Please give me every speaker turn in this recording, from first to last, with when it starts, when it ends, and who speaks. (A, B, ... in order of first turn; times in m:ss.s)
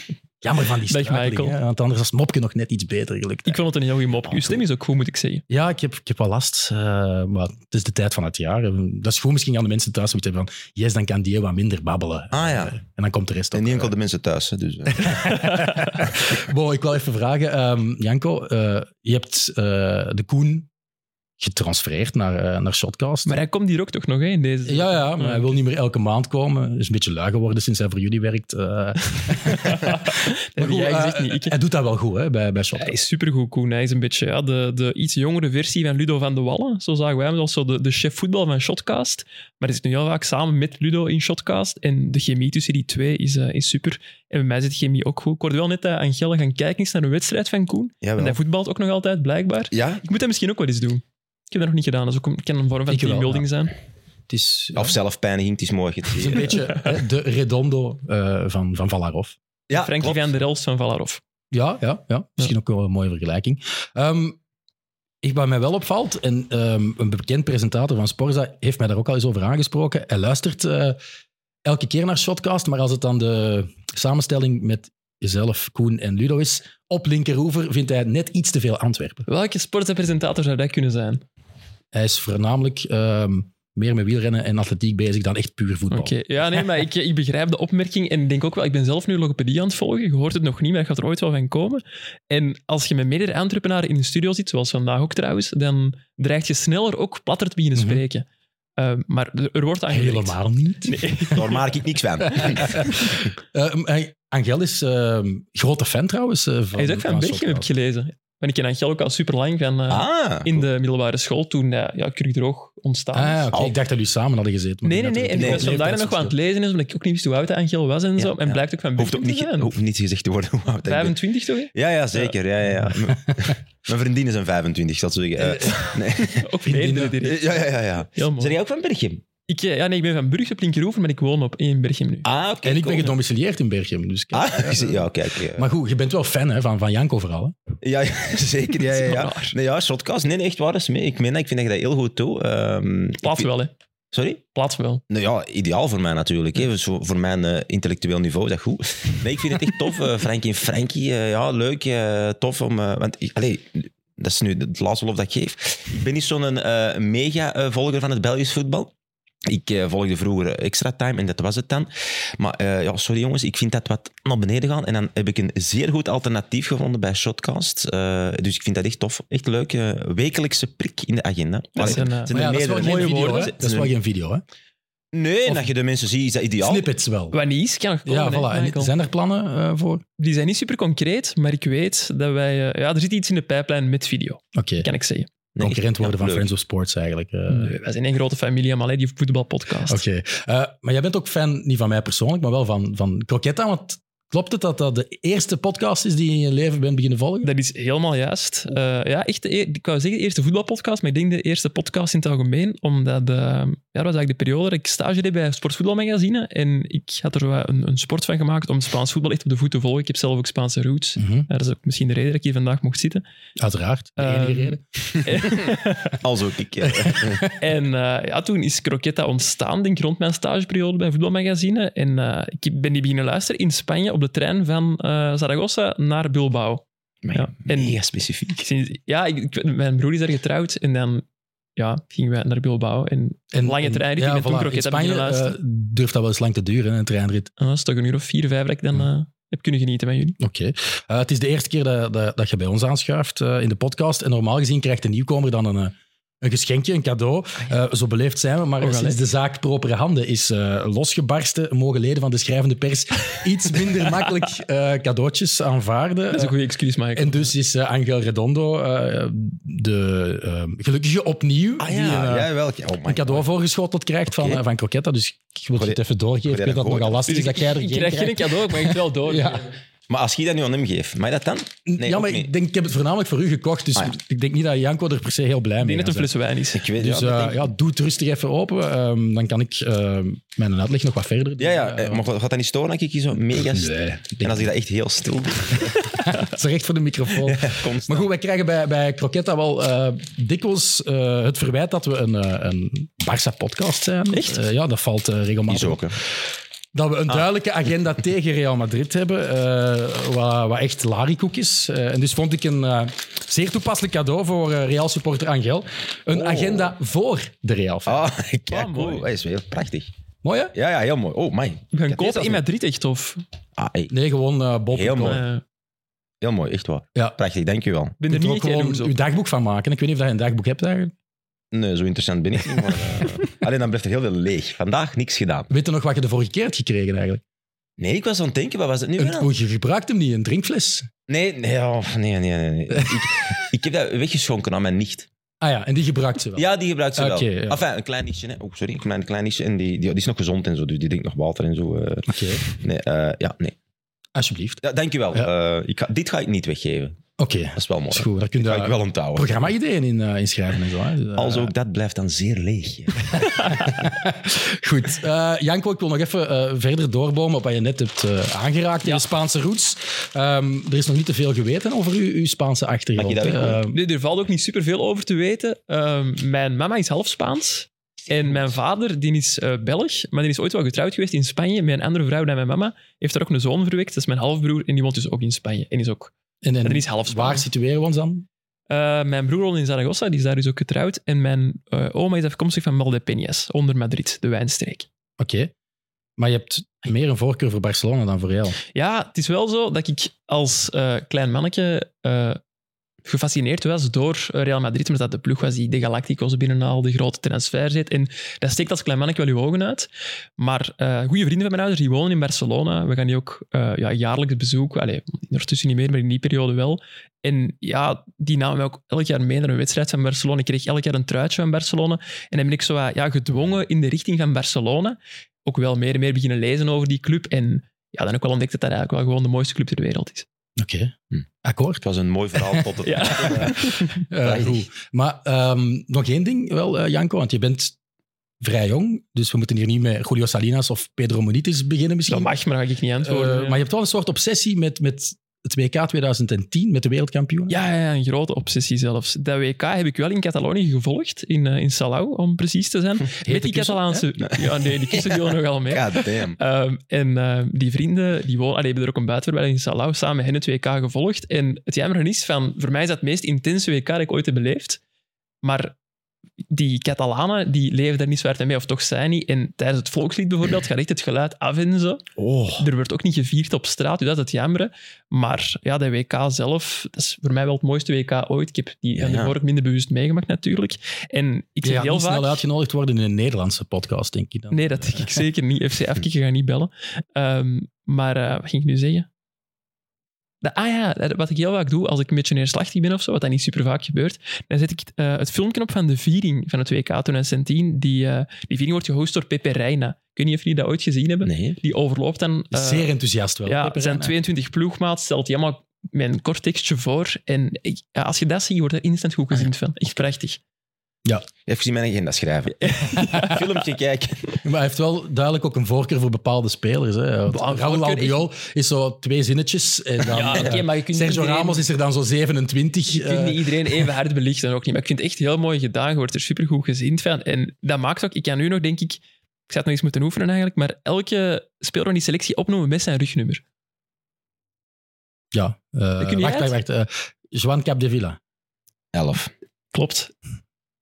0:00.4-0:03.6 A
0:00.9-0:01.6 B
0:03.5-0:05.4 B
0:05.5-0:14.0 A
0:12.3-0:12.8 C
0:13.5-0:15.6 C
0:14.9-0:20.7 A
0:15.3-0:16.0 B
0:21.4-0:23.4 A
0:23.3-0:25.5 B
0:24.7-0:33.0 A
0:29.4-0:31.6 B
0:32.8-0:53.7 B
0:48.0-0:48.4 C
0:49.7-0:50.0 C
0:52.9-0:53.5 A
0:54.3-0:55.0 A
0:54.7-0:56.7 C
0:56.2-0:59.4 A
0:56.6-0:57.0 B
0:59.7-1:00.3 C
0:59.7-1:01.2 B
1:01.5-1:04.4 A
1:05.2-1:11.0 A
1:11.6-1:19.3 A
1:19.3-1:21.2 B
1:21.9-1:26.6 A
1:25.9-1:38.2 B
1:37.8-1:38.0 A
1:38.8-1:41.6 B
1:39.9-1:41.5 A
1:41.3-1:42.8 C
1:42.3-1:47.7 A
1:42.3-1:43.0 B
1:46.8-1:53.5 B
1:49.9-1:50.7 C
1:53.1-1:56.4 A
1:54.8-1:59.8 B
1:55.4-1:55.7 C
1:58.2-2:01.2 C
2:00.8-2:02.4 B
2:01.7-2:06.5 C
2:02.9-2:03.5 A
2:05.4-2:06.0 A
2:06.2-2:08.6 B
2:06.6-2:07.2 A
2:07.2-2:09.2 C
2:09.5-2:12.3 B
2:12.2-2:13.1 C
2:12.6-2:17.6 A
2:14.3-2:15.7 C
2:17.8-2:23.5 C
2:18.8-2:19.6 B
2:23.2-2:23.7 B
2:24.1-2:24.4 C
2:24.5-2:25.0 B
2:25.1-2:38.9 C
2:39.4-2:53.9 C
2:51.8-2:53.5 B
2:51.8-2:54.4 A
2:55.1-2:56.9 C
2:56.6-2:57.4 A
2:57.3-2:58.9 B
2:58.1-3:00.0 A
3:00.2-3:05.3 B
3:04.6-3:04.9 A
3:05.6-3:06.5 C
3:05.6-3:07.8 A
3:07.5-3:10.0 B
3:09.9-3:17.5 A
3:17.4-3:33.2 B
3:31.2-3:31.5 A
3:33.6-3:34.8 A
3:34.2-3:36.2 B
3:35.4-3:37.5 C
3:36.8-3:37.6 A
3:37.5-3:48.0 B
3:47.2-3:48.7 C
3:48.6-3:51.2 B
3:51.8-3:55.6 B
3:53.5-3:57.5 A
3:57.6-4:00.4 B
4:00.4-4:16.5 A
4:08.8-4:09.2 B
4:16.3-4:17.5 B
4:17.2-4:22.5 A
4:21.8-4:23.4 C
4:23.1-4:29.6 A
4:24.4-4:24.6 C
4:25.8-4:27.3 C
4:27.3-4:29.7 B
4:30.1-4:32.5 C
4:31.9-4:36.3 A
4:35.8-4:36.8 B
4:36.8-4:37.7 C
4:37.0-4:42.2 A
4:41.6-4:46.2 C
4:43.5-4:44.7 A
4:46.1-4:56.1 A
4:47.4-4:48.3 C
4:54.3-4:54.6 B
4:55.7-4:56.2 C
4:56.9-5:08.3 A
5:06.3-5:06.9 C
5:08.1-5:10.1 C
5:08.7-5:09.3 B
5:10.4-5:10.7 A
5:10.7-5:12.6 C
5:11.9-5:13.4 B
5:13.8-5:14.1 C
5:14.1-5:15.4 A
5:14.9-5:15.4 C
5:15.3-5:15.6 B
5:16.4-5:18.2 C
5:18.2-5:19.2 B
5:18.3-5:21.1 A
5:21.7-5:25.7 C
5:22.7-5:23.4 A
5:25.7-5:27.4 A
5:28.0-5:29.5 C
5:29.2-5:31.1 A
5:31.3-5:35.3 C
5:32.9-5:33.3 A
5:35.6-5:37.8 A
5:36.6-5:43.8 C
5:42.3-5:42.6 A
5:44.4-5:44.8 A
5:44.8-5:47.2 C
5:47.4-5:51.7 A
5:47.8-5:49.6 C
5:51.4-5:53.9 C
5:53.4-6:04.0 A
6:03.2-6:03.8 C
6:03.9-6:16.3 B
6:16.6-6:18.5 A
6:16.8-6:17.7 B
6:18.9-6:25.1 B
6:25.4-6:25.7 A
6:26.4-6:28.8 A
6:28.9-6:32.6 B
6:33.2-7:00.5 B
7:00.8-7:02.0 A
7:02.0-7:04.8 C
7:02.6-7:02.9 A
7:03.0-7:04.2 B
7:03.4-7:08.0 A
7:08.6-7:12.5 A
7:12.3-7:13.8 B
7:13.2-7:17.8 A
7:17.7-7:35.0 B
7:23.4-7:24.3 A
7:24.6-7:25.4 C
7:25.9-7:26.6 C
7:35.6-7:36.0 B
7:36.7-7:42.2 B
7:42.4-7:42.8 C
7:42.8-7:52.6 B
7:49.2-7:49.5 C
7:51.8-7:55.4 A
7:54.7-7:59.3 B
8:00.6-8:13.1 B
8:11.4-8:11.8 C
8:12.7-8:14.4 A
8:13.6-8:20.6 B
8:21.7-8:24.6 C
8:22.8-8:23.8 B
8:23.2-8:23.5 A
8:24.6-8:34.1 A
8:27.5-8:28.4 B
8:30.2-8:31.8 B
8:33.1-8:43.6 B
8:45.5-8:48.4 A
8:46.2-8:46.8 B
8:49.1-8:49.5 C
8:49.9-8:50.3 B